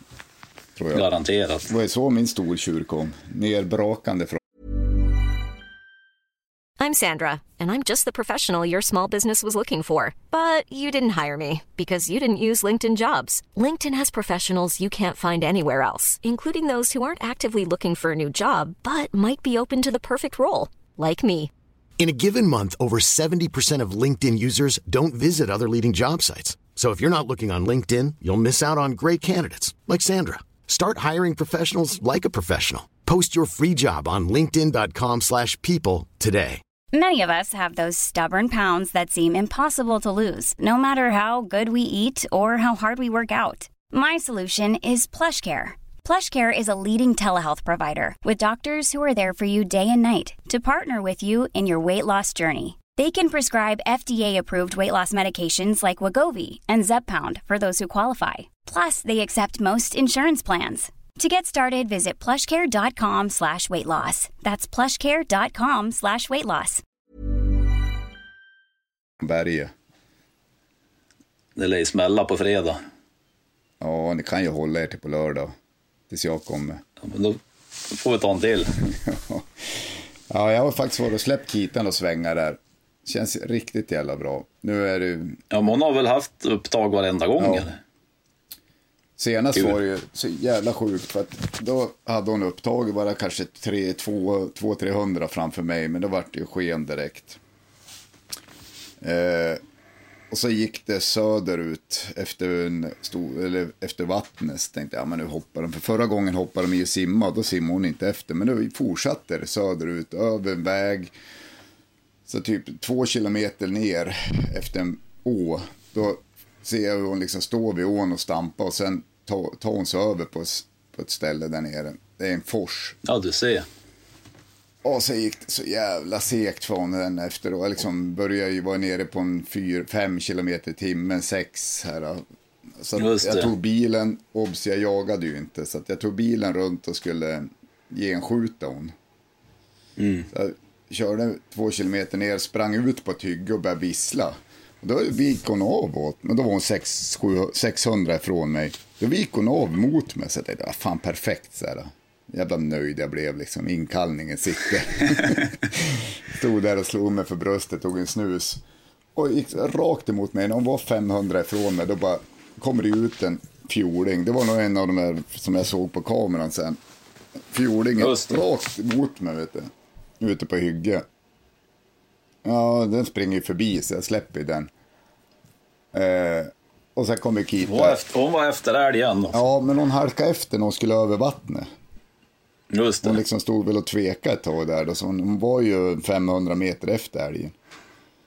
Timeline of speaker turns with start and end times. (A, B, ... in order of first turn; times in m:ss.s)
0:00.8-0:01.0 A
0:00.9-0:01.7 B
0:01.7-0:04.4 A
0:06.8-0:21.5 C
0:22.0-0:36.6 D
0:36.9-1:06.8 E
1:09.2-1:09.7 A
1:11.6-1:12.8 B
1:13.8-1:15.5 A
1:16.1-1:16.8 A
1:17.0-1:18.7 B
1:18.9-1:25.4 A
1:25.5-1:27.8 B
1:27.4-1:27.7 A
1:29.2-1:37.4 A
1:39.0-1:39.6 A
1:40.3-1:51.1 A
1:52.3-2:03.0 A
2:03.0-2:03.6 B
2:04.8-2:12.2 A
2:12.8-2:18.9 A
2:13.0-2:13.5 B
2:20.0-2:20.3 B
2:20.3-2:38.6 A
2:39.1-2:46.8 A
2:47.4-2:51.0 A
2:48.0-2:48.4 B
2:52.4-2:54.7 A
2:55.9-2:58.0 A
2:57.6-2:59.4 B
2:59.3-3:01.7 A
3:02.7-3:03.2 B
3:03.0-3:07.5 A